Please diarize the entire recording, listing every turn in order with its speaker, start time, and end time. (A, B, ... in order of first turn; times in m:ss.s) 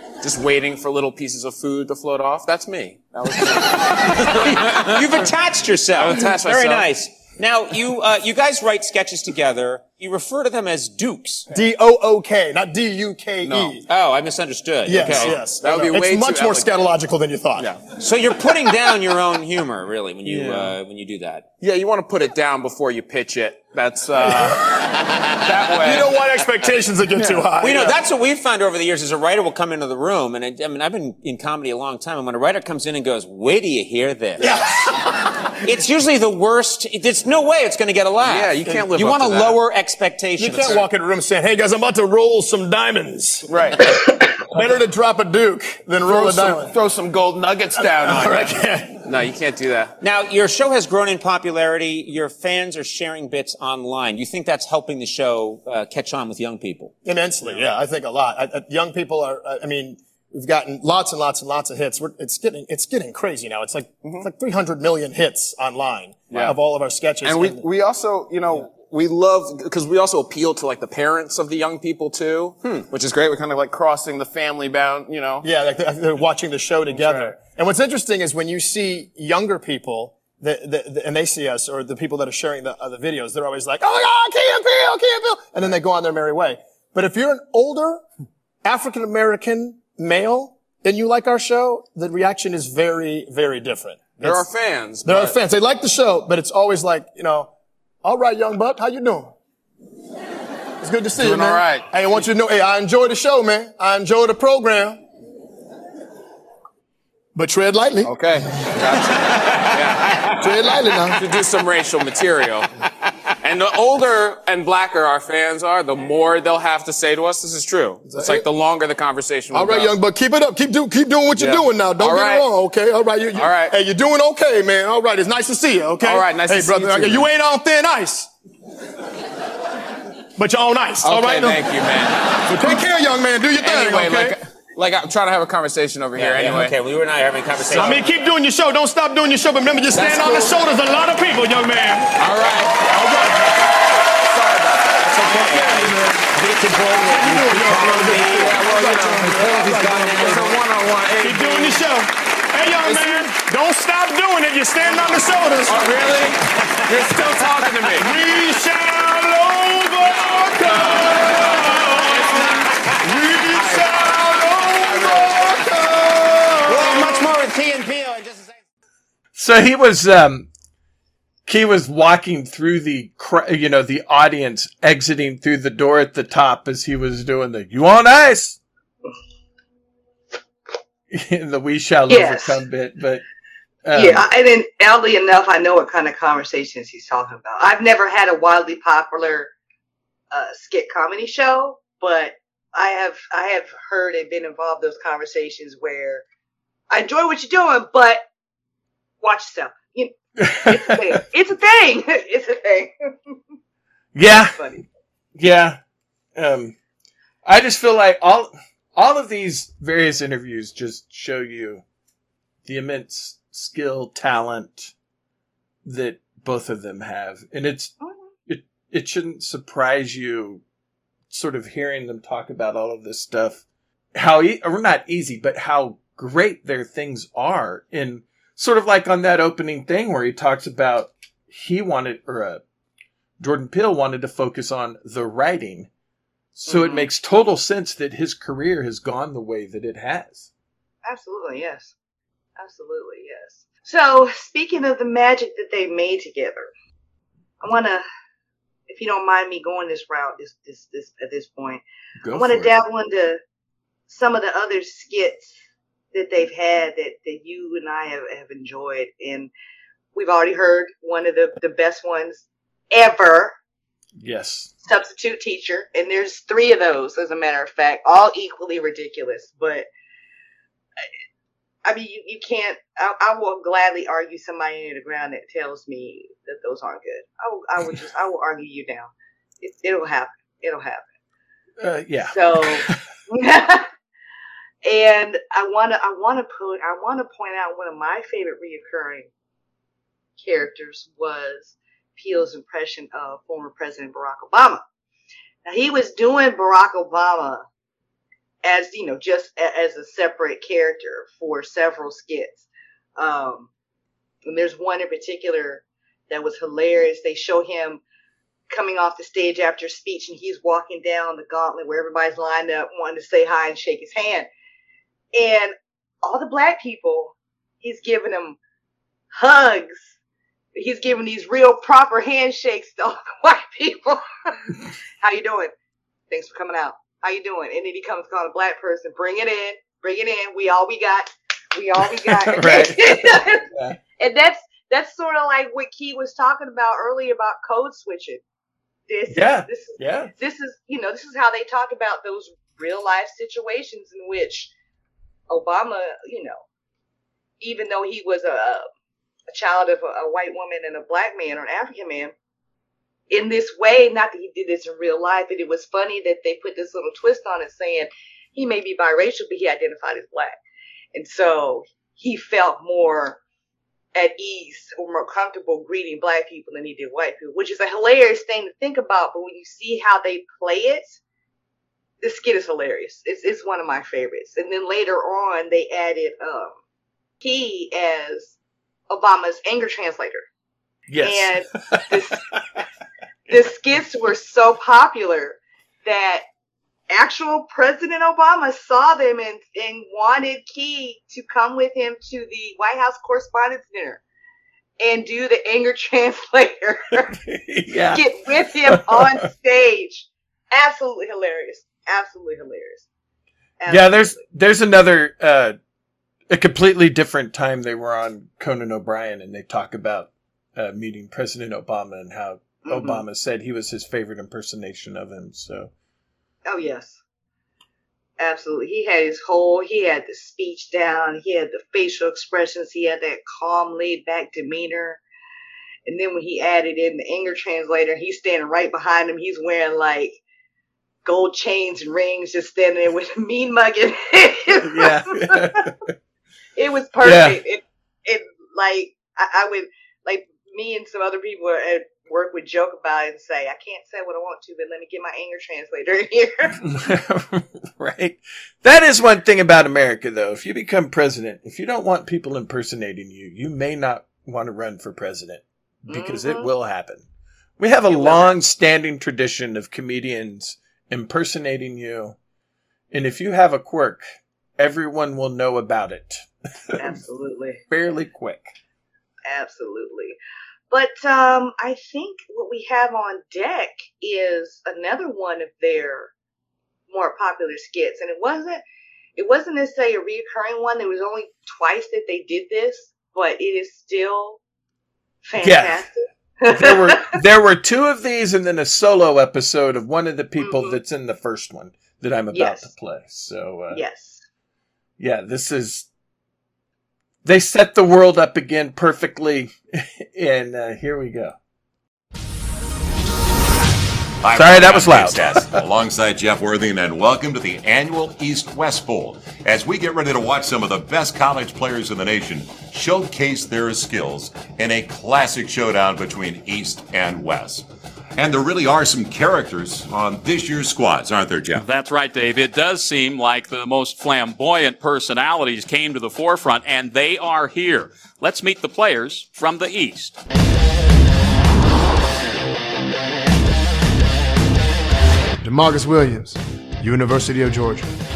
0:00.2-0:05.3 A
0:03.9-0:11.4 B
0:05.9-0:06.9 A
0:11.5-0:13.8 C
0:13.4-0:13.8 A
0:13.8-0:15.4 B
0:14.9-0:17.6 C
0:15.0-0:16.9 A
0:17.6-0:17.8 A
0:18.0-0:21.5 B
0:20.2-0:20.7 A
0:21.6-0:26.2 A
0:25.8-0:27.9 C
0:27.1-0:27.5 A
0:27.6-0:34.5 B
0:34.4-0:34.8 C
0:35.6-0:40.8 B
0:38.2-0:39.6 A
0:40.4-0:43.5 C
0:43.4-0:44.0 A
0:44.5-0:46.7 C
0:46.0-0:49.9 A
0:47.9-0:49.0 C
0:50.0-0:56.9 B
0:57.0-1:07.6 C
1:04.0-1:04.3 A
1:06.3-1:06.6 A
1:07.2-1:15.5 A
1:15.4-1:28.0 C
1:17.0-1:17.3 A
1:28.6-1:34.4 C
1:34.2-1:35.4 A
1:35.0-1:37.5 C
1:38.0-1:39.3 C
1:40.8-1:45.0 C
1:41.1-1:42.3 A
1:47.3-1:48.2 C
1:48.0-1:52.7 A
1:50.4-1:51.2 C
1:53.4-2:00.0 A
1:58.1-1:58.4 C
1:59.5-2:08.3 C
2:01.3-2:02.5 A
2:03.3-2:03.8 A
2:06.0-2:07.3 A
2:10.4-2:11.6 C
2:11.0-2:12.8 A
2:12.5-2:14.4 C
2:13.6-2:16.8 A
2:16.2-2:18.0 B
2:17.7-2:18.0 A
2:17.7-2:22.1 C
2:19.9-2:20.6 A
2:22.2-2:23.5 A
2:22.9-2:23.4 C
2:24.3-2:31.8 A
2:25.2-2:30.6 C
2:25.4-2:25.6 B
2:31.2-2:36.0 C
2:32.8-2:33.3 A
2:35.6-2:38.1 A
2:37.9-2:47.3 C
2:40.1-2:43.0 A
2:43.5-2:45.6 A
2:46.7-2:47.5 A
2:47.2-2:48.5 B
2:49.3-2:50.5 D
2:51.4-2:58.6 D
3:01.1-3:03.2 D
3:02.1-3:02.6 E
3:03.8-3:04.3 D
3:03.9-3:09.5 E
3:10.3-3:16.2 E
3:16.9-3:18.2 E
3:19.2-3:23.3 E
3:20.4-3:21.2 D
3:24.1-3:24.8 D
3:24.5-3:24.8 E
3:25.4-3:25.8 D
3:26.4-3:26.7 D
3:27.4-3:31.8 D
3:32.6-3:34.9 D
3:35.8-3:37.9 D
3:38.0-3:38.3 E
3:38.5-3:40.6 D
3:41.3-3:43.6 D
3:44.1-3:52.6 D
3:53.4-3:55.9 D
3:56.6-4:00.5 D
3:56.7-3:57.1 E
4:01.0-4:01.9 E
4:02.6-4:06.7 E
4:07.6-4:08.0 E
4:08.9-4:11.8 E
4:12.2-4:12.8 D
4:12.3-4:13.4 E
4:14.1-4:15.6 E
4:16.1-4:19.5 E
4:20.1-4:23.6 E
4:24.2-4:24.7 D
4:24.8-4:29.9 E
4:31.8-4:41.1 E
4:41.8-4:43.0 D
4:42.2-4:43.9 E
4:44.8-4:49.3 E
4:50.4-4:54.8 E
4:55.6-4:57.6 E
4:58.6-5:02.6 E
5:03.2-5:03.7 E
5:04.4-5:08.0 E
5:08.7-5:14.5 E
5:15.3-5:18.6 E
5:19.3-5:20.1 E
5:20.7-5:25.7 E
5:26.3-5:38.4 E
5:32.2-5:34.0 D
5:39.1-5:44.7 E
5:39.3-5:40.3 D
5:45.5-5:46.6 E
5:47.6-5:48.9 E
5:49.5-5:52.3 E
5:53.3-6:00.6 E
6:01.1-6:03.4 E
6:04.1-6:11.2 E
6:12.2-6:16.8 E
6:17.4-6:18.6 E
6:19.1-6:20.4 E
6:21.1-6:22.6 D
6:21.2-6:22.6 E
6:23.5-6:26.4 E
6:27.1-6:34.2 E
6:35.0-6:37.4 E
6:37.2-6:39.4 D
6:38.1-6:43.0 E
6:43.8-6:44.4 E
6:43.9-6:45.8 D
6:46.5-6:55.9 D
6:52.8-6:53.2 E
6:56.6-6:57.2 E
6:58.4-7:05.2 E
7:06.0-7:10.4 E
7:11.2-7:15.8 E
7:14.8-7:16.0 D
7:16.8-7:26.8 E
7:17.2-7:17.6 D
7:26.8-7:37.2 D
7:36.1-7:36.7 E
7:37.8-7:42.4 D
7:38.1-7:38.5 E
7:43.1-7:44.2 D
7:44.8-7:47.2 D
7:47.0-7:47.8 E
7:47.9-7:48.7 D
7:49.4-7:50.4 E
7:50.9-7:56.3 E
7:57.1-7:58.8 E
7:59.4-8:04.6 E
8:05.4-8:07.4 E
8:05.6-8:06.0 D
8:06.7-8:14.0 D
8:10.6-8:11.0 E
8:12.5-8:12.9 E
8:13.9-8:14.4 E
8:15.2-8:16.1 D
8:17.4-8:21.6 D
8:24.4-8:41.8 F
8:24.5-8:25.8 D
8:41.7-8:50.4 G
8:55.6-8:58.1 C